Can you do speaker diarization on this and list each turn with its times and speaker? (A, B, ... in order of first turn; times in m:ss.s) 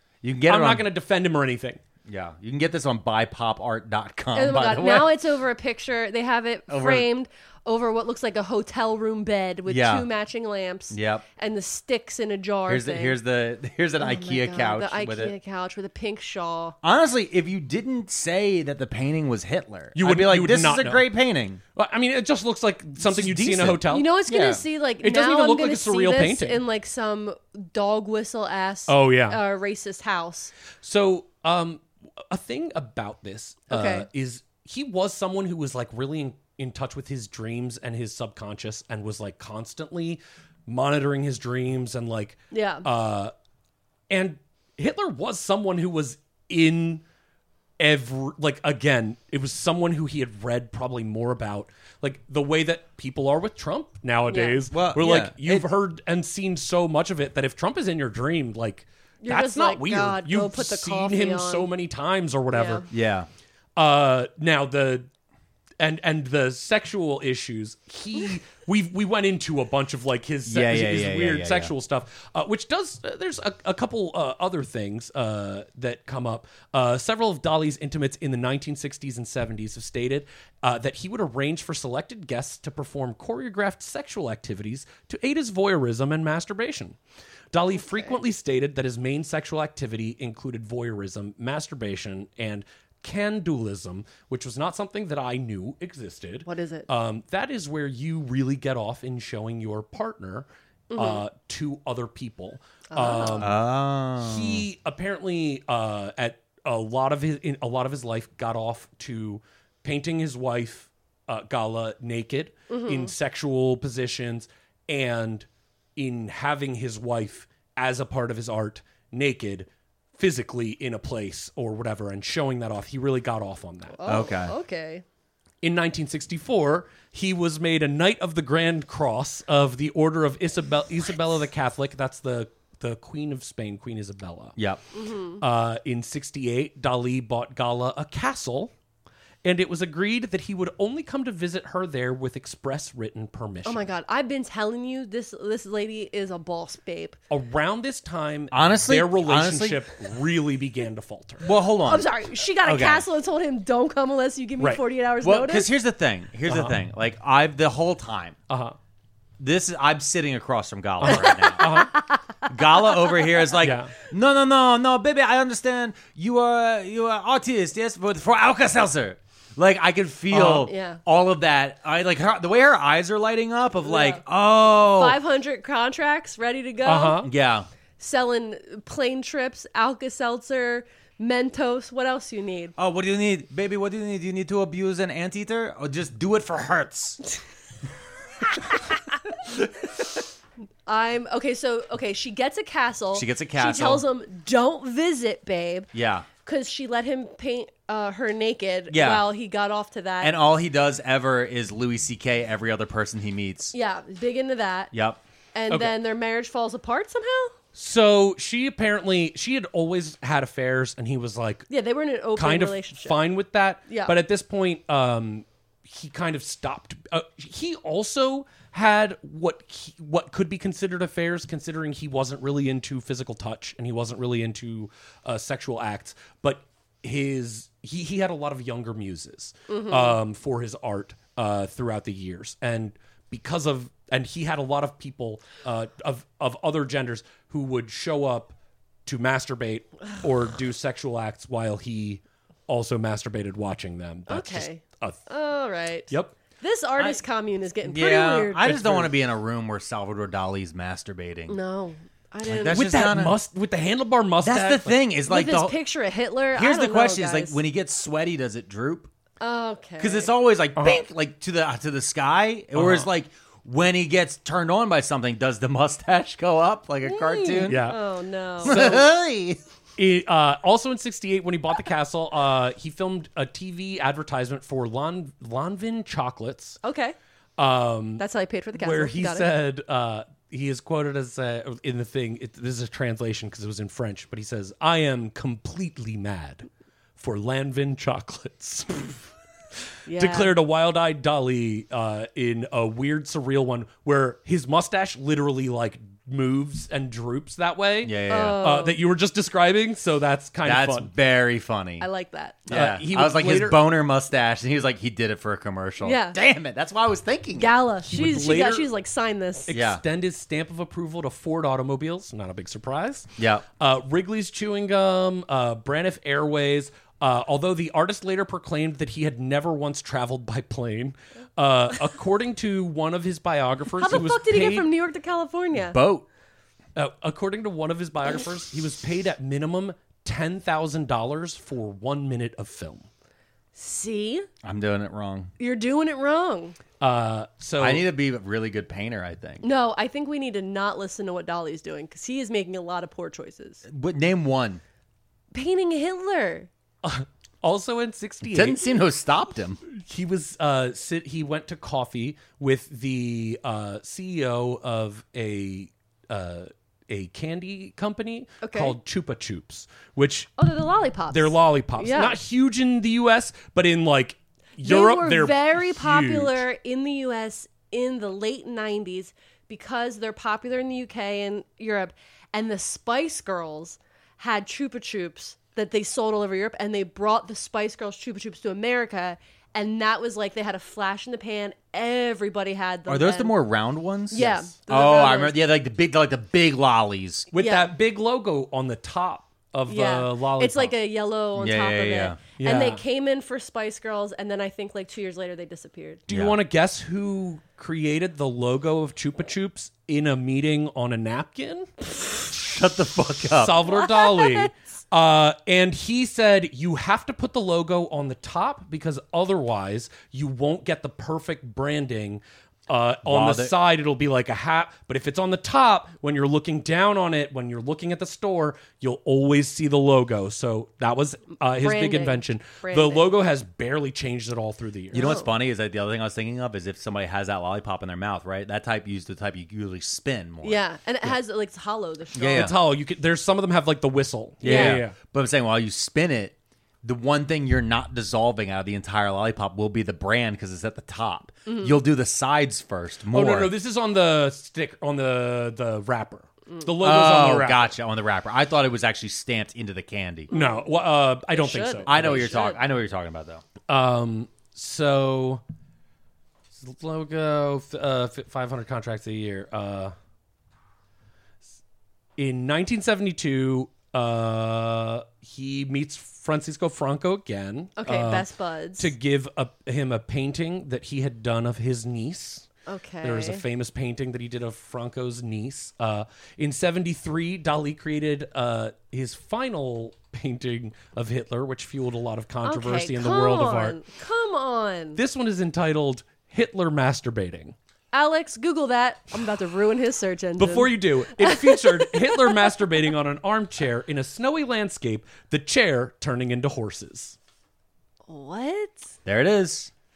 0:00.2-0:00.9 A
0:00.4-0:01.8 B
0:02.1-0:05.1 A
0:04.4-0:13.2 C
0:06.7-0:07.1 A
0:09.7-0:10.1 A
0:10.9-0:11.2 A
0:12.7-0:15.4 A
0:14.0-0:16.8 C
0:16.8-0:21.6 A
0:20.0-0:21.1 B
0:21.8-0:24.1 B
0:23.0-0:24.6 A
0:23.8-0:30.5 C
0:25.0-0:26.6 B
0:28.9-0:29.4 B
0:30.8-0:43.3 B
0:33.7-0:34.1 C
0:42.5-0:42.9 C
0:44.1-0:47.0 B
0:47.8-1:02.9 B
0:54.3-0:54.6 C
0:54.7-0:55.7 A
0:59.2-1:01.7 C
1:02.5-1:02.8 C
1:02.9-1:03.3 A
1:03.8-1:05.1 B
1:05.8-1:27.0 B
1:10.5-1:11.7 A
1:27.5-1:43.6 B
1:27.8-1:28.1 C
1:36.4-1:36.9 C
1:40.9-1:41.2 C
1:42.9-1:43.4 C
1:43.3-1:44.6 A
1:44.2-2:04.0 B
1:52.7-1:53.1 C
2:03.9-2:05.0 C
2:04.1-2:04.5 A
2:05.6-2:14.6 B
2:14.6-2:14.8 A
2:14.9-2:15.4 C
2:15.4-2:18.7 B
2:19.4-2:23.9 B
2:23.6-2:27.2 C
2:27.3-2:31.5 B
2:28.5-2:30.0 A
2:31.4-2:33.0 A
2:31.9-2:35.7 C
2:35.2-2:38.4 A
2:36.5-2:36.8 B
2:38.5-2:38.8 B
2:39.4-2:41.9 A
2:41.0-2:41.9 B
2:41.7-2:42.2 C
2:42.5-2:55.2 A
2:43.6-2:43.9 B
2:50.3-2:50.7 B
2:50.5-2:51.0 C
2:53.8-2:54.2 C
2:54.9-2:57.2 C
2:56.8-2:57.3 B
2:57.2-2:57.7 A
2:58.0-3:02.8 C
3:02.8-3:07.2 A
3:10.9-3:15.9 C
3:13.1-3:14.0 A
3:15.9-3:16.3 A
3:16.4-3:20.4 C
3:18.9-3:19.3 A
3:20.2-3:23.7 A
3:23.7-3:24.9 C
3:24.9-3:25.2 A
3:25.5-3:27.6 C
3:27.8-3:31.7 B
3:31.7-3:33.2 C
3:32.4-3:58.6 B
3:33.9-3:34.2 C
3:49.7-3:50.2 C
3:59.1-4:05.2 B
4:04.3-4:09.0 C
4:07.8-4:11.6 A
4:11.5-4:12.9 C
4:12.4-4:13.4 A
4:12.6-4:15.0 B
4:14.4-4:15.8 A
4:15.3-4:17.6 C
4:16.5-4:19.1 A
4:19.4-4:20.3 C
4:20.0-4:27.9 A
4:20.8-4:21.0 B
4:22.8-4:23.1 B
4:27.1-4:28.9 C
4:27.6-4:28.0 B
4:28.6-4:29.1 B
4:28.6-4:29.6 A
4:30.0-4:36.8 B
4:36.8-4:37.2 C
4:37.6-4:38.2 B
4:38.2-4:39.5 C
4:38.8-4:46.7 B
4:47.2-4:49.3 B
4:50.1-4:50.5 C
4:50.1-5:01.1 B
4:58.0-4:58.6 A
4:58.3-4:59.0 C
5:00.6-5:02.1 A
5:02.0-5:02.7 C
5:02.7-5:07.7 A
5:02.7-5:03.8 B
5:06.0-5:06.4 C
5:07.6-5:09.7 C
5:08.1-5:08.9 B
5:09.7-5:13.3 B
5:09.7-5:10.0 A
5:13.4-5:13.7 A
5:13.8-5:24.9 B
5:24.0-5:26.0 C
5:25.8-5:26.3 A
5:27.0-5:33.1 B
5:33.8-5:34.5 C
5:34.6-5:35.5 A
5:35.6-5:36.8 C
5:37.0-5:38.1 B
5:37.8-5:39.7 A
5:39.6-5:43.8 C
5:43.9-5:44.8 A
5:45.5-5:46.7 C
5:47.0-5:48.8 B
5:48.4-5:49.8 A
5:49.9-6:00.5 B
5:58.6-5:59.0 C
6:00.6-6:02.4 C
6:01.3-6:06.6 B
6:04.8-6:23.6 C
6:23.1-6:27.5 A
6:24.3-6:25.6 C
6:24.4-6:24.7 B
6:27.5-6:30.9 B
6:27.6-6:27.9 C
6:29.9-6:36.3 C
6:31.6-6:32.4 A
6:32.6-6:33.0 B
6:36.3-6:41.9 B
6:36.3-6:36.6 A
6:42.5-6:43.8 A
6:43.5-7:05.3 B
6:43.9-6:44.7 C
6:53.3-6:53.8 A
7:01.8-7:03.3 C
7:05.1-7:10.8 A
7:05.1-7:05.5 C
7:10.6-7:12.7 C
7:12.4-7:12.8 A
7:12.5-7:15.2 B
7:14.6-7:23.7 A
7:14.6-7:15.0 C
7:21.7-7:22.0 C
7:23.3-7:28.0 B
7:27.0-7:30.5 A
7:30.5-7:30.9 C
7:30.5-7:32.6 B
7:31.5-7:32.8 C
7:32.1-7:33.6 A
7:33.9-7:35.6 B
7:36.8-7:40.1 B
7:42.4-7:52.7 B
7:48.0-7:49.1 C
7:52.9-7:53.6 C
7:53.2-8:04.0 B
8:02.6-8:05.2 C
8:05.2-8:07.8 B
8:08.1-8:12.8 C
8:10.6-8:17.4 B
8:18.3-8:19.1 C
8:19.2-8:19.9 A